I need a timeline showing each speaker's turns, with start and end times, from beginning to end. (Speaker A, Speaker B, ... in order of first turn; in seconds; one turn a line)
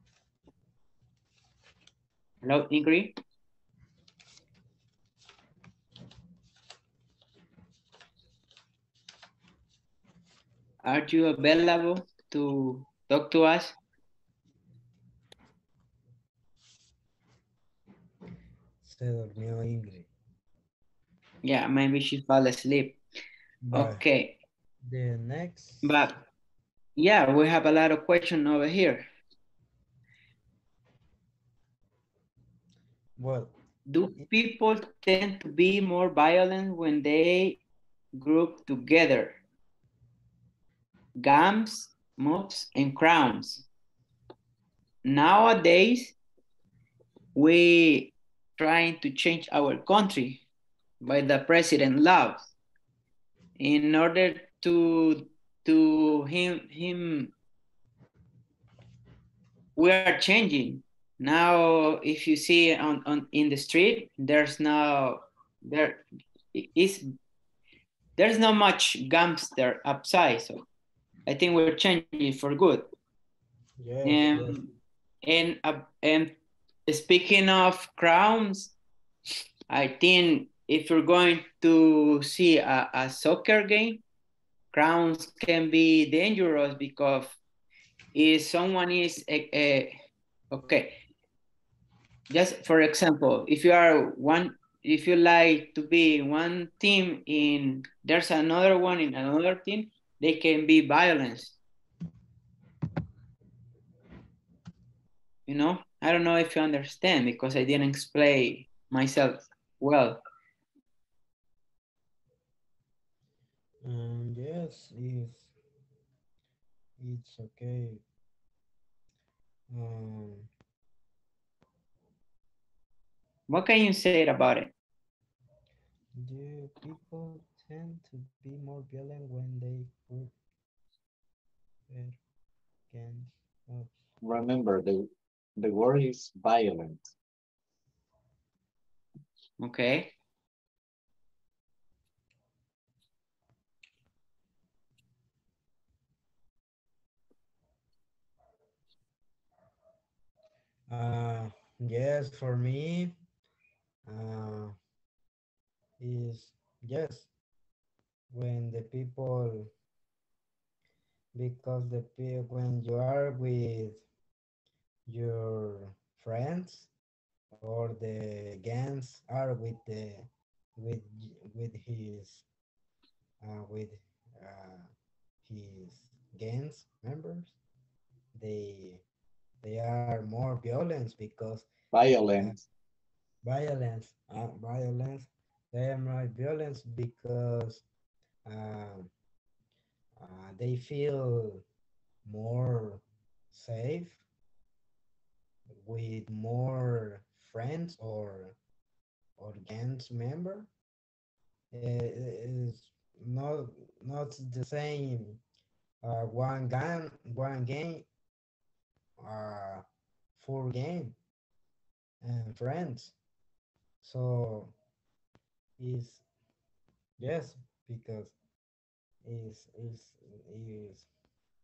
Speaker A: 2.4-3.1
Speaker A: 10.8-13.7
Speaker B: 18.8-20.1
Speaker A: 21.4-23.0
Speaker B: 23.6-24.0
Speaker A: 23.7-24.4
Speaker B: 24.8-26.0
Speaker A: 25.8-26.2
Speaker A: 27.0-29.1
Speaker B: 33.2-33.5
Speaker A: 33.9-37.6
Speaker A: 38.1-39.4
Speaker A: 41.2-43.6
Speaker A: 45.0-46.1
Speaker A: 47.4-50.4
Speaker A: 51.0-52.5
Speaker A: 53.6-57.3
Speaker A: 59.8-67.1
Speaker A: 68.2-70.6
Speaker A: 71.2-72.9
Speaker B: 73.8-74.6
Speaker A: 74.0-74.6
Speaker A: 75.2-76.3
Speaker A: 76.9-78.7
Speaker A: 79.7-84.0
Speaker A: 84.7-87.4
Speaker A: 88.1-90.0
Speaker A: 90.5-91.0
Speaker A: 92.3-101.5
Speaker A: 105.5-110.2
Speaker B: 113.8-115.5
Speaker B: 117.0-118.0
Speaker B: 119.7-120.5
Speaker A: 123.5-124.7
Speaker B: 126.1-130.3
Speaker B: 131.9-132.2
Speaker B: 132.9-133.9
Speaker C: 134.2-137.1
Speaker A: 139.6-140.1
Speaker B: 150.9-153.1
Speaker B: 154.1-154.8
Speaker B: 156.0-157.3
Speaker B: 158.3-159.7
Speaker B: 161.3-164.0
Speaker B: 165.1-166.9
Speaker B: 167.6-172.4
Speaker B: 173.4-174.9
Speaker B: 175.4-177.5
Speaker B: 178.3-179.0
Speaker B: 179.6-182.6
Speaker C: 181.9-182.6
Speaker B: 183.4-187.8
Speaker B: 188.4-189.1
Speaker B: 190.2-191.6
Speaker B: 192.2-194.2
Speaker B: 195.8-198.6
Speaker B: 199.4-200.7
Speaker B: 201.7-205.4
Speaker B: 206.0-208.0
Speaker B: 209.2-209.8
Speaker B: 210.4-211.2
Speaker B: 212.2-213.1
Speaker B: 214.0-214.7
Speaker B: 215.8-216.2
Speaker B: 217.2-218.3
Speaker B: 219.2-221.1